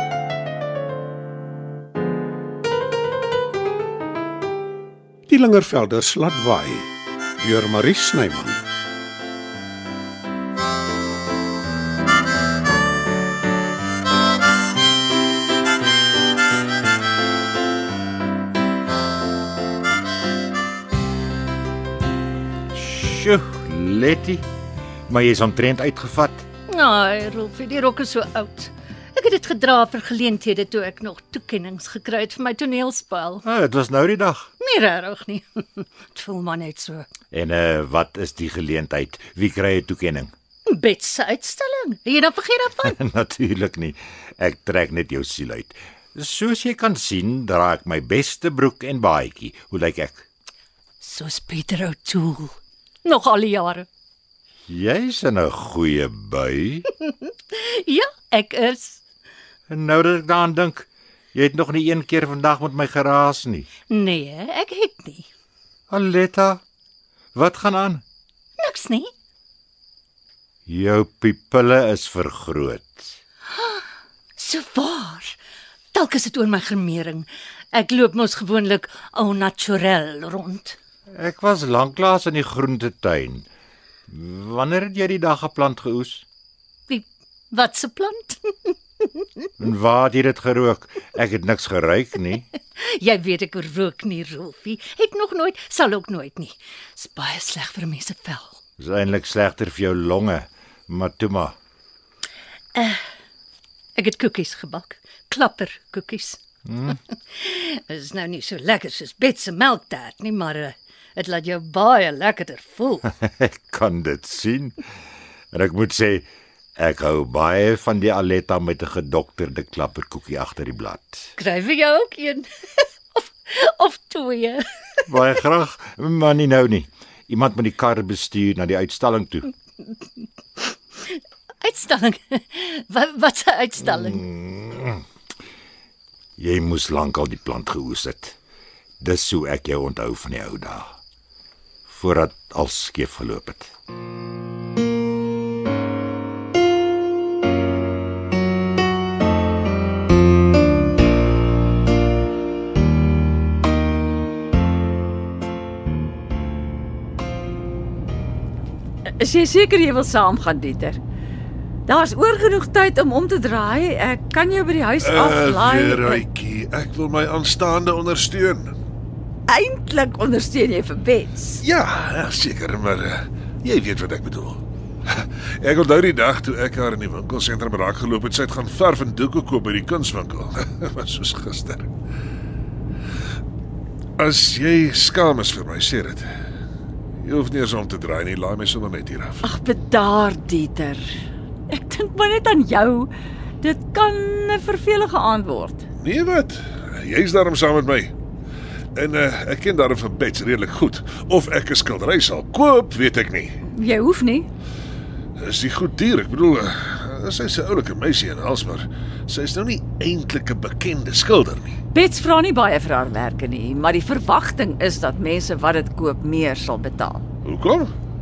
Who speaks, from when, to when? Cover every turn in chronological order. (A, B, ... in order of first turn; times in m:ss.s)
0:05.3-0:08.6 A
0:22.7-0:24.4 B
0:25.1-0:26.4 B
0:26.7-0:33.4 C
0:33.4-0:34.5 B
0:34.6-0:37.1 C
0:37.3-0:40.3 B
0:40.7-0:43.0 C
0:42.8-0:50.2 B
0:51.0-0:53.9 C
0:54.7-0:56.8 B
0:57.0-0:59.0 C
0:59.7-1:03.7 B
1:03.9-1:05.3 C
1:05.9-1:06.6 B
1:07.3-1:08.0 B
1:08.6-1:09.1 C
1:10.7-1:13.1 B
1:13.5-1:13.8 C
1:14.4-1:15.4 C
1:15.9-1:20.8 C
1:21.1-1:23.4 B
1:24.1-1:26.2 B
1:26.9-1:29.2 C
1:29.6-1:32.5 B
1:32.8-1:38.6 C
1:38.8-1:41.5 B
1:42.7-1:43.0 C
1:43.9-1:46.4 C
1:46.6-1:47.0 B
1:47.3-1:53.1 C
1:53.2-1:54.8 B
1:55.5-1:56.3 B
1:56.8-2:01.3 B
2:01.4-2:05.0 C
2:05.1-2:09.5 B
2:11.0-2:14.2 C
2:13.9-2:15.0 B
2:16.4-2:18.4 B
2:19.0-2:21.0 B
2:21.9-2:23.7 B
2:39.2-2:41.0 D
2:41.9-2:46.2 D
2:45.0-2:48.7 E
2:49.5-2:51.6 D
2:51.6-3:01.9 E
3:04.2-3:06.3 E
3:07.2-3:09.4 E
3:09.4-3:11.1 D
3:11.7-3:15.8 D
3:16.0-3:18.1 E
3:19.0-3:23.5 E
3:23.6-3:24.5 D
3:25.4-3:31.7 E
3:31.9-3:37.2 D
3:37.4-3:37.9 E